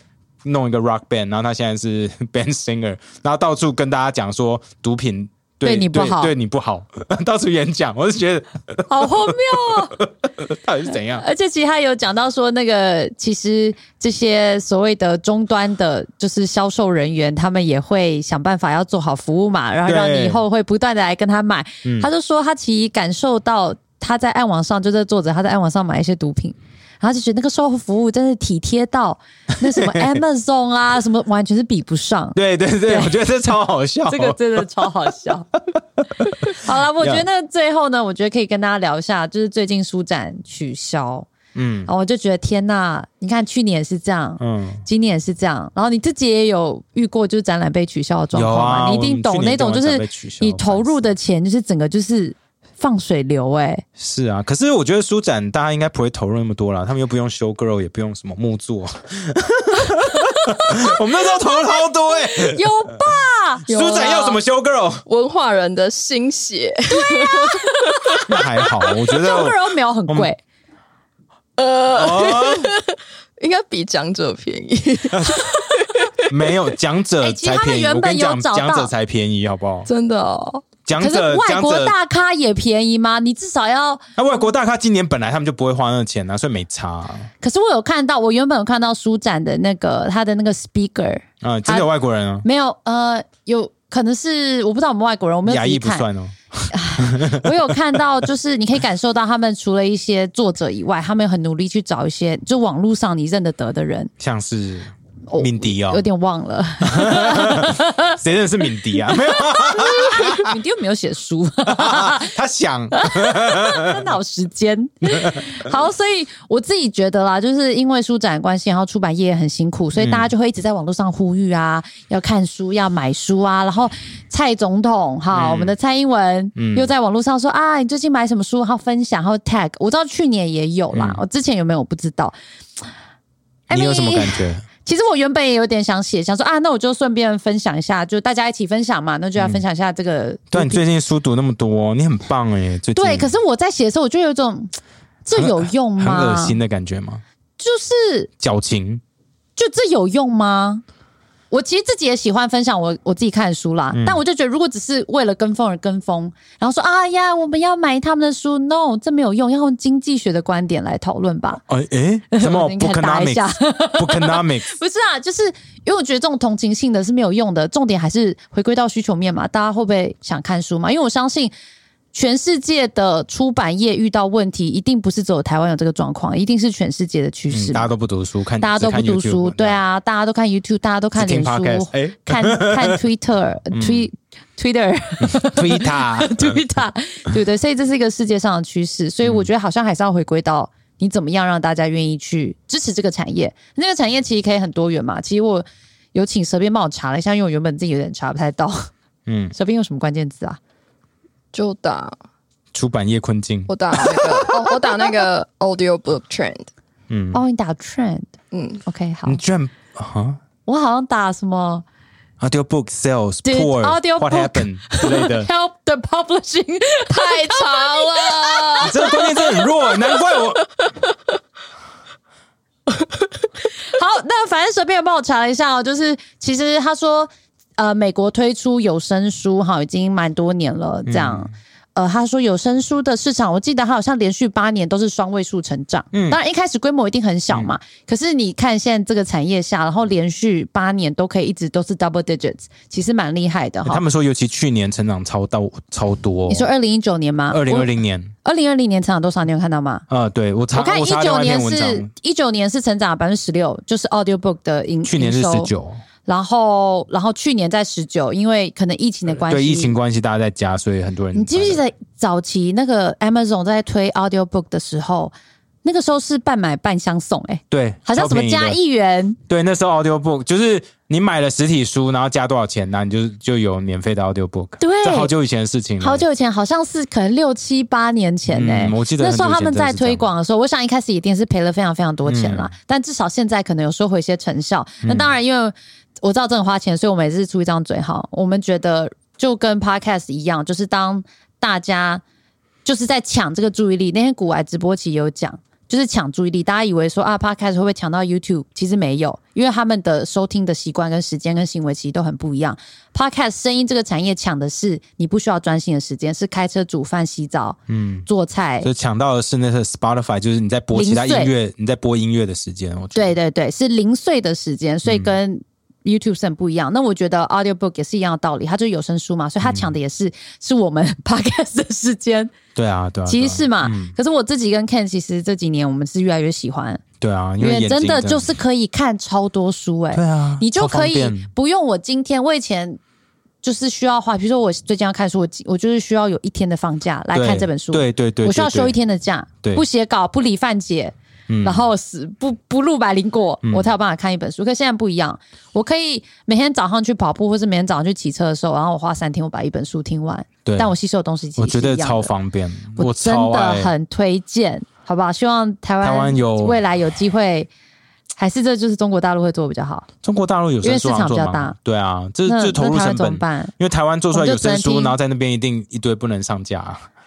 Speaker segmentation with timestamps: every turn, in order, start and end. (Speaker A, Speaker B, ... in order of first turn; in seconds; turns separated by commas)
Speaker A: 0.4-11.2, Speaker B: 5.6-6.3, Speaker B: 8.9-10.0, Speaker B: 11.1-33.2, Speaker A: 19.9-20.4, Speaker A: 21.8-22.1, Speaker A: 29.6-30.2, Speaker A: 32.3-34.6, Speaker B: 34.1-35.5, Speaker A: 35.7-37.2, Speaker B: 36.4-41.3, Speaker A: 41.5-41.9, Speaker B: 41.9-53.8, Speaker A: 44.4-44.8, Speaker A: 48.3-51.1, Speaker A: 54.0-62.7, Speaker B: 62.3-63.6, Speaker A: 63.7-65.0, Speaker C: 63.7-64.4, Speaker C: 65.1-68.3, Speaker B: 66.9-68.2, Speaker A: 68.3-69.6, Speaker B: 68.9-70.4, Speaker C: 71.6-76.2, Speaker A: 71.9-72.7, Speaker A: 75.1-75.4, Speaker A: 76.2-79.9, Speaker B: 77.2-78.9, Speaker C: 79.9-80.6, Speaker A: 80.8-81.9, Speaker B: 81.0-84.1, Speaker A: 84.2-87.3, Speaker B: 87.4-91.9, Speaker A: 91.4-92.4, Speaker B: 92.4-96.0, Speaker A: 95.5-98.0, Speaker B: 96.7-104.1, Speaker A: 104.2-106.0, Speaker B: 105.3-108.2, Speaker A: 106.8-110.5, Speaker B: 109.1-112.3, Speaker A: 111.7-114.0, Speaker B: 112.9-132.3, Speaker A: 120.0-120.3, Speaker A: 125.3-125.7, Speaker A: 126.5-126.9, Speaker A: 130.9-131.2, Speaker B: 133.7-140.8, Speaker A: 133.7-134.7, Speaker A: 139.4-139.6, Speaker A: 140.5-143.3, Speaker B: 142.9-144.7, Speaker B: 145.2-146.6, Speaker A: 145.3-147.2, Speaker B: 147.6-148.3, Speaker A: 148.4-149.0, Speaker B: 149.6-150.8, Speaker B: 151.5-161.6, Speaker A: 153.9-154.2, Speaker A: 161.6-164.7, Speaker B: 162.3-171.5, Speaker B: 172.1-177.9, Speaker A: 177.5-179.8, Speaker B: 178.6-198.9, Speaker A: 181.2-183.0, Speaker A: 183.7-184.1, Speaker A: 185.2-186.6, Speaker A: 199.3-199.6, Speaker B: 199.6-200.6, Speaker C: 201.5-202.2, Speaker A: 202.7-204.2, Speaker C: 203.7-206.7, Speaker A: 207.1-207.4, Speaker B: 207.3-208.3, Speaker C: 208.5-208.8, Speaker B: 208.8-209.4, Speaker A: 209.2-210.4, Speaker B: 210.7-211.8, Speaker A: 212.4-215.5, Speaker B: 213.4-219.5, Speaker C: 217.1-220.9, Speaker A: 218.8-220.6, Speaker B: 223.8-244.0, Speaker A: 231.1-231.5, Speaker A: 236.1-236.4, Speaker A: 243.8-246.7, Speaker B: 246.5-247.9, Speaker A: 247.5-248.3, Speaker B: 248.4-250.0, Speaker A: 250.1-252.1, Speaker B: 250.7-255.7, Speaker A: 255.0-256.0, Speaker B: 256.2-259.9, Speaker A: 259.4-261.8, Speaker B: 261.3-269.4, Speaker A: 267.7-268.8, Speaker A: 269.5-276.2, Speaker B: 274.8-275.3, Speaker B: 276.0-292.2, Speaker A: 278.5-280.3, Speaker A: 282.2-282.7, Speaker A: 285.0-285.4, Speaker B: 292.8-308.9, Speaker A: 307.9-308.3, Speaker A: 308.8-313.3, Speaker B: 310.9-311.5, Speaker B: 313.1-322.5, Speaker A: 315.0-315.3, Speaker A: 319.6-319.9, Speaker A: 322.7-324.1, Speaker B: 323.3-327.0, Speaker A: 327.2-328.4, Speaker B: 327.6-333.0, Speaker A: 330.1-331.5, Speaker B: 333.6-352.3, Speaker A: 337.3-339.0, Speaker A: 341.5-341.9, Speaker A: 343.6-343.9, Speaker A: 350.6-350.9, Speaker A: 351.6-353.9, Speaker B: 352.9-357.7, Speaker A: 356.0-356.8, Speaker B: 358.4-360.1, Speaker A: 360.2-367.1, Speaker B: 360.8-361.8, Speaker B: 362.4-363.7, Speaker B: 364.3-365.1